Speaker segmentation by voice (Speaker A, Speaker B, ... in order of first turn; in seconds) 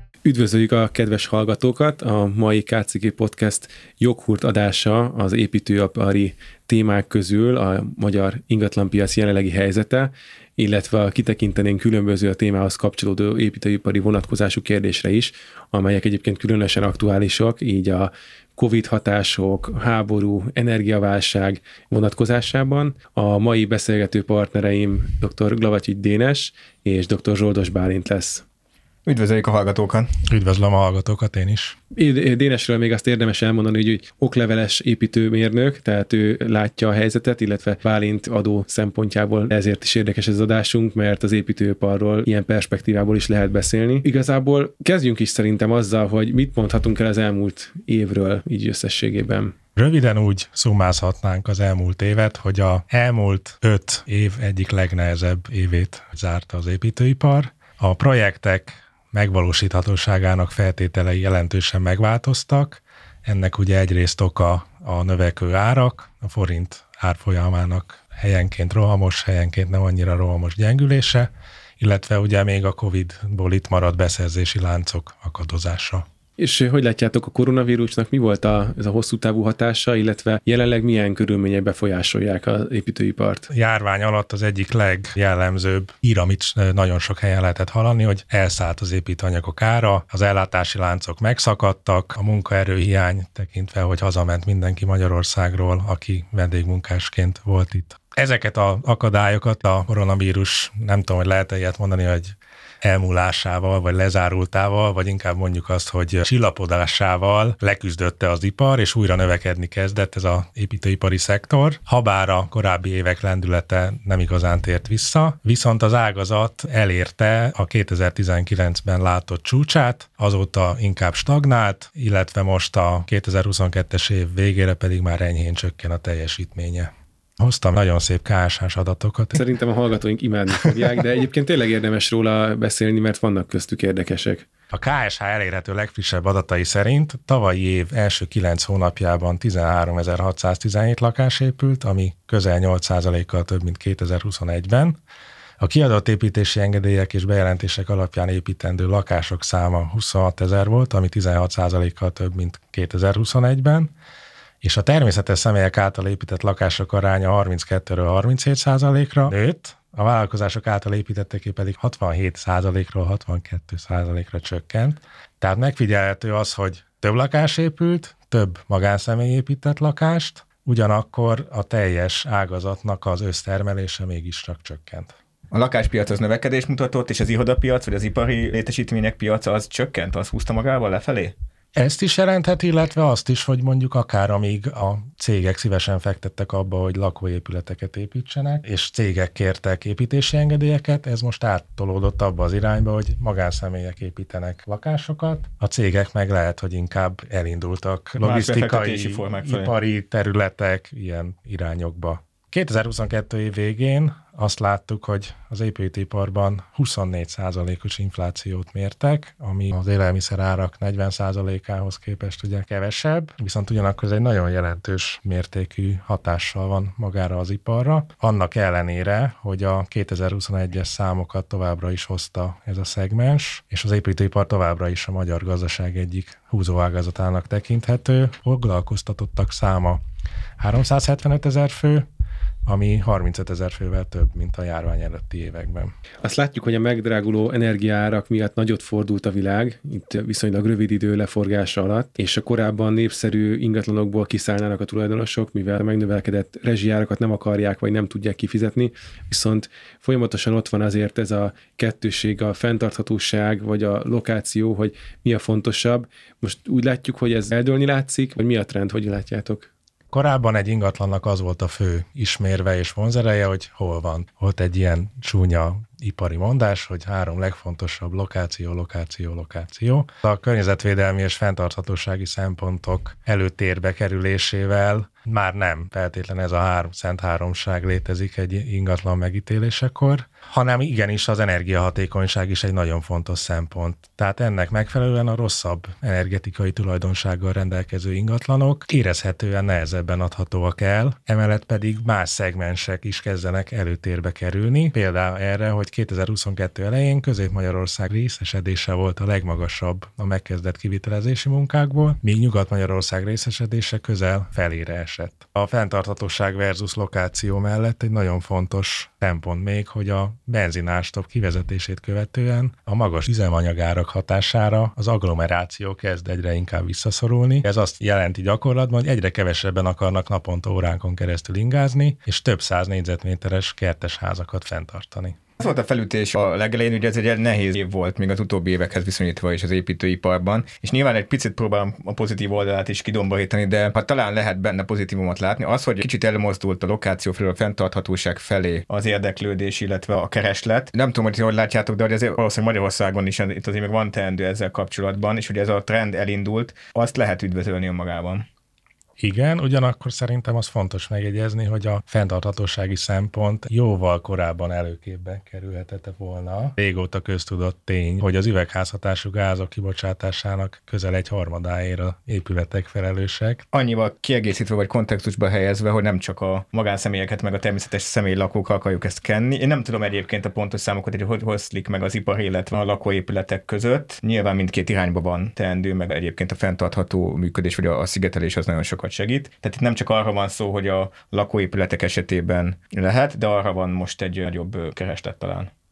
Speaker A: 0.2-28.4, 32.0-49.5, 76.4-83.5, 129.4-134.5, 236.2-259.7
Speaker B: 29.1-30.1, 175.5-181.3, 198.2-199.7, 325.6-348.4, 363.7-385.7
Speaker C: 30.3-31.8, 49.8-76.0, 83.5-129.4, 134.7-145.0, 145.6-153.9, 154.6-175.2, 181.8-230.0, 230.6-232.1, 232.7-235.9, 260.1-325.4, 349.2-363.6